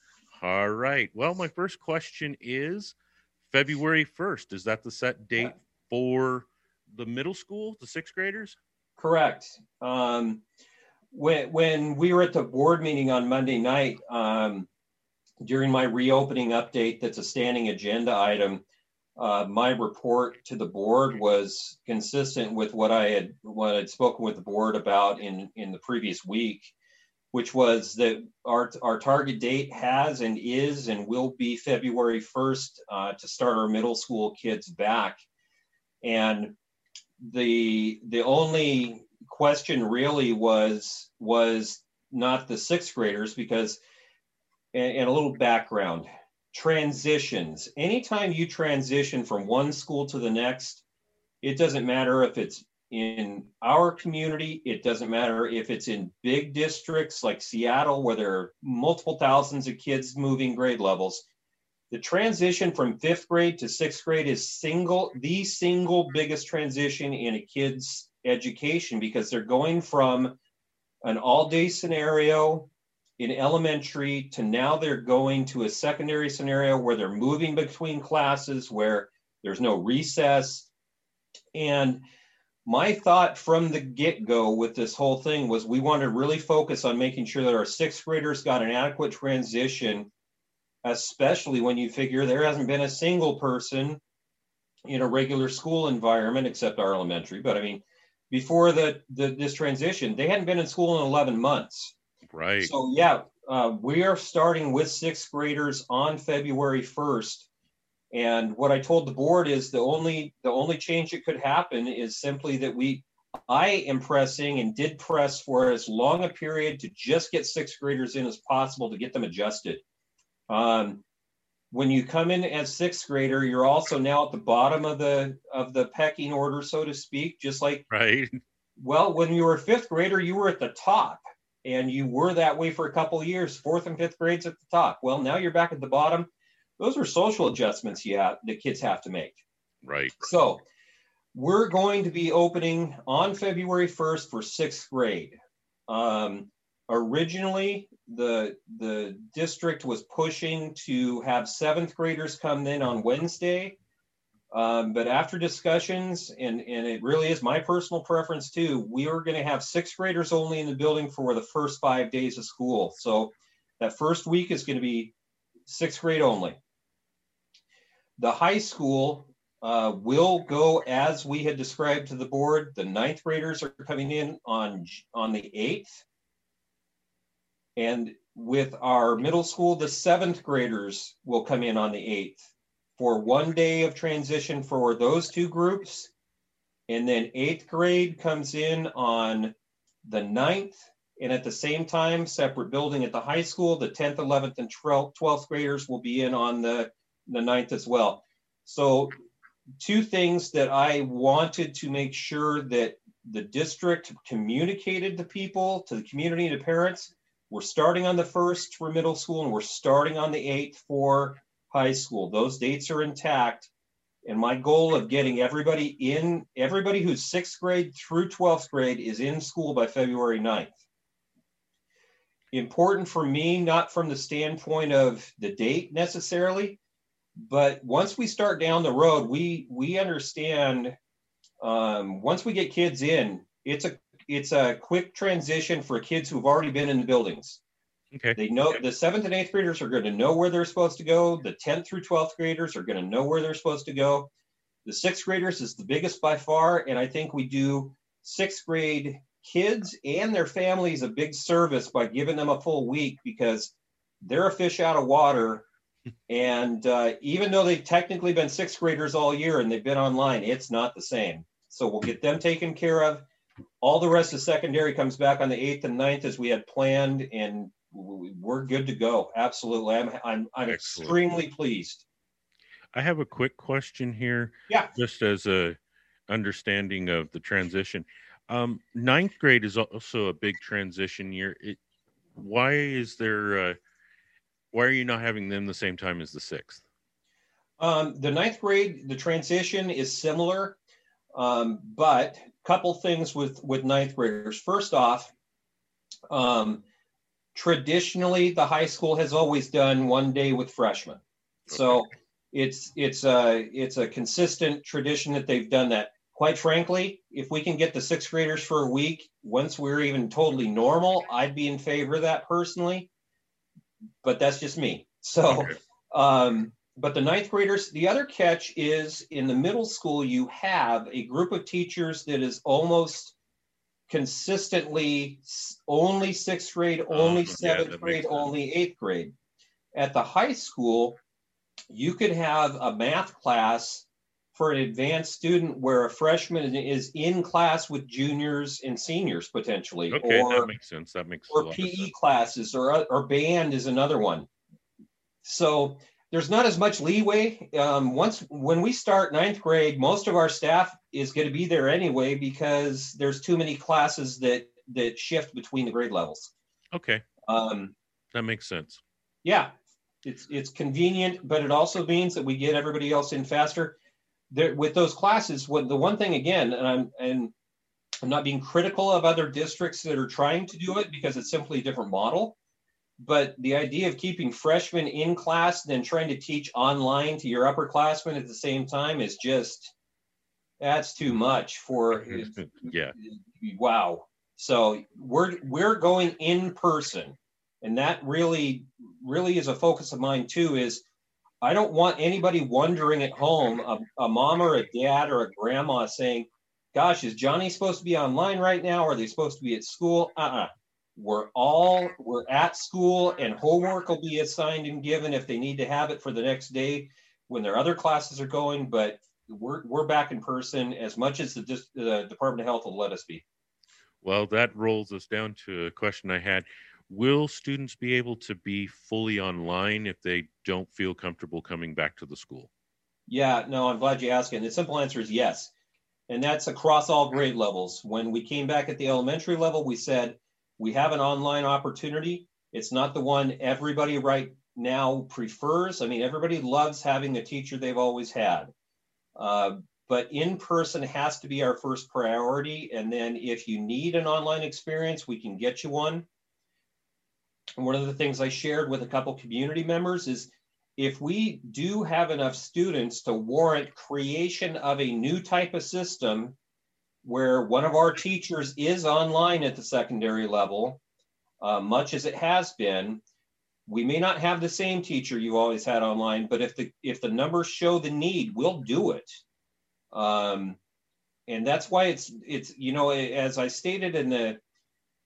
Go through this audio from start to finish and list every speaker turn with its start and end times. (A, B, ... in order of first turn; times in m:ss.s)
0:00.3-0:03.0 A
0:03.5-0:08.6 A
0:09.0-0:10.4 B
0:11.1-0:14.7 B
0:15.4-0:18.6 B
0:19.2-0:26.7 B
0:27.3-0:35.2 B
0:36.0-0:36.5 B
0:37.2-0:43.8 B
0:44.7-0:50.8 B
0:51.4-1:01.2 B
1:01.9-1:10.4 B
1:11.0-1:20.7 B
1:21.5-1:22.0 B
1:22.6-1:30.1 B
1:30.8-1:34.0 B
1:34.9-1:41.9 B
1:42.3-1:42.7 A
1:42.6-1:47.5 B
1:48.1-1:59.8 B
2:00.5-2:01.0 B
2:01.7-2:07.8 B
2:07.9-2:08.4 A
2:08.8-2:19.4 B
2:19.8-2:20.3 A
2:20.2-2:20.6 B
2:21.3-2:25.4 B
2:25.9-2:33.8 B
2:34.5-2:45.1 B
2:45.6-2:46.6 B
2:48.2-2:56.0 B
2:57.8-3:06.1 B
3:06.9-3:09.5 B
3:10.0-3:19.1 B
3:19.8-3:33.7 B
3:34.2-3:40.7 B
3:42.5-3:46.8 B
3:47.4-3:51.0 B
3:51.6-3:57.6 B
3:58.1-3:58.8 A
3:58.4-4:04.3 B
4:04.8-4:15.6 B
4:16.3-4:23.2 B
4:23.8-4:32.0 B
4:30.7-4:31.2 A
4:32.9-4:35.8 A
4:36.3-4:41.8 A
4:42.4-4:43.8 A
4:44.7-4:46.8 A
4:47.8-4:50.8 B
4:51.4-4:55.3 B
4:56.3-4:56.8 B
4:57.5-5:13.1 B
5:01.7-5:02.0 A
5:14.2-5:23.4 B
5:24.1-5:29.3 B
5:27.1-5:28.5 A
5:29.9-5:31.2 B
5:31.9-5:40.7 B
5:40.1-5:42.1 A
5:41.5-5:44.5 B
5:45.4-5:56.5 B
5:56.9-5:57.2 A
5:57.4-5:57.9 B
5:58.3-5:59.0 A
5:59.4-5:59.7 B
6:00.2-6:03.9 B
6:04.5-6:07.5 B
6:08.2-6:12.6 B
6:13.2-6:19.9 B
6:20.8-6:31.0 B
6:22.1-6:23.2 A
6:31.6-6:53.4 B
6:54.2-7:02.7 A
7:03.3-7:05.7 B
7:06.3-7:18.7 B
7:19.4-7:26.2 B
7:27.8-7:36.6 B
7:37.2-7:41.0 B
7:41.6-7:43.2 B
7:43.9-7:49.4 B
7:50.1-7:50.8 B
7:51.5-7:54.6 B